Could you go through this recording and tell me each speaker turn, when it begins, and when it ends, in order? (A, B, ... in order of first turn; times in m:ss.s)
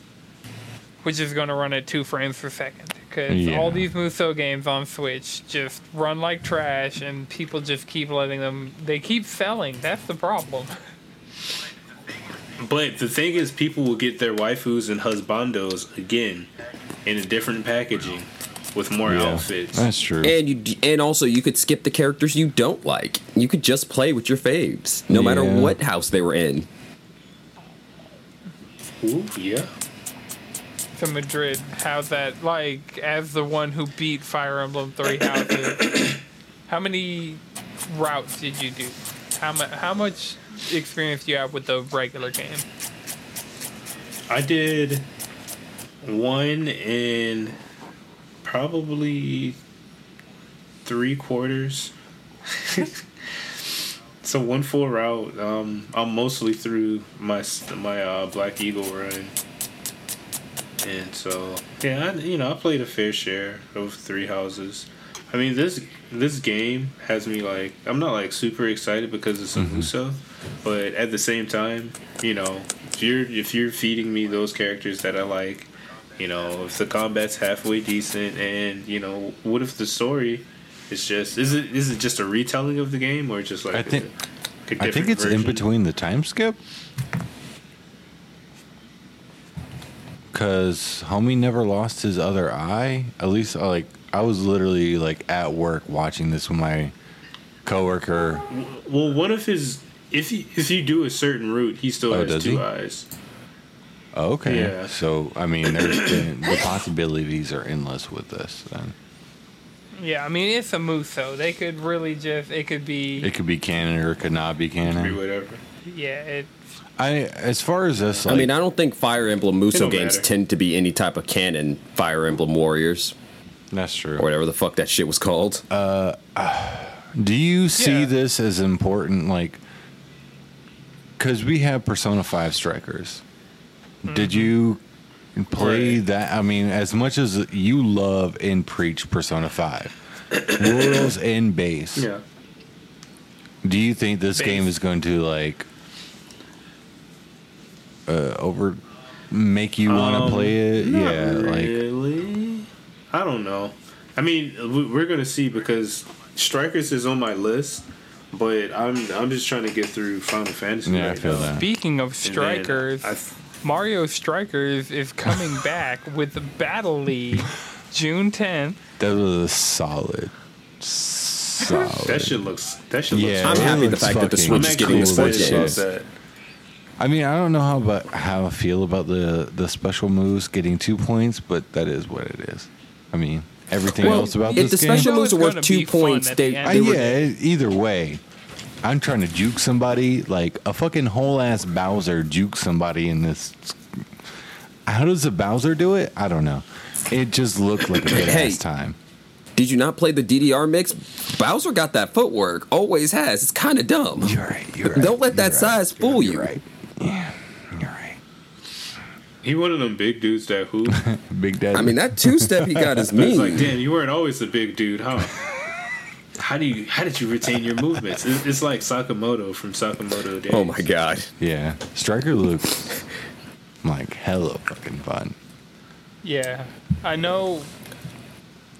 0:01.0-0:10.7 A
0:03.3-0:03.8 B
0:12.6-0:16.5 C
0:17.0-0:19.9 C
0:19.0-0:20.4 B
0:20.2-0:26.7 D
0:25.1-0:25.8 B
0:29.0-0:29.7 C
0:30.9-0:36.0 A
0:36.7-0:42.6 A
0:44.3-0:45.1 C
0:46.0-0:47.6 C
0:48.4-0:49.6 C
0:50.8-0:51.9 C
0:52.5-0:53.0 C
0:54.2-0:59.4 C
1:00.8-1:24.1 C
1:09.6-1:09.9 B
1:23.7-1:24.1 B
1:24.6-1:25.6 C
1:24.8-1:26.6 B
1:30.3-1:36.9 B
1:37.6-1:38.4 B
1:38.5-1:43.1 C
1:42.1-1:42.6 B
1:44.1-1:48.9 B
1:44.4-1:44.9 C
1:45.6-1:46.8 C
1:50.0-1:53.3 A
1:53.2-1:55.2 B
1:54.8-1:55.6 C
1:55.8-1:56.5 A
1:57.0-1:58.5 B
1:58.2-2:03.1 D
1:59.7-2:00.3 C
2:03.7-2:04.3 B
2:04.2-2:05.6 D
2:05.7-2:09.6 B
2:07.8-2:08.1 A
2:11.2-2:13.2 B
2:14.0-2:14.5 A
2:14.0-2:14.8 B
2:15.4-2:19.9 B
2:15.6-2:16.0 C
2:20.3-2:21.1 C
2:20.5-2:22.1 B
2:22.0-2:22.2 C
2:23.6-2:25.7 B
2:24.3-2:24.7 A
2:28.1-2:31.8 B
2:29.8-2:41.5 C
2:40.8-2:41.6 B
2:41.5-2:48.8 A
2:42.2-2:43.4 C
2:49.0-2:52.4 B
2:52.0-2:56.0 C
2:53.1-2:55.8 B
2:53.4-2:55.8 D
2:57.0-3:05.1 B
3:04.0-3:07.1 D
3:04.0-3:07.2 A
3:06.6-3:08.2 B
3:08.8-3:14.1 B
3:14.8-3:19.0 B
3:18.0-3:18.6 D
3:19.6-3:26.5 D
3:24.2-3:28.2 B
3:29.4-3:31.0 C
3:30.9-3:33.1 B
3:31.7-3:33.8 D
3:33.2-3:35.4 C
3:36.4-3:40.9 C
3:37.7-3:38.2 B
3:40.5-3:41.3 D
3:41.4-3:43.0 B
3:43.8-3:45.4 B
3:46.2-3:47.7 A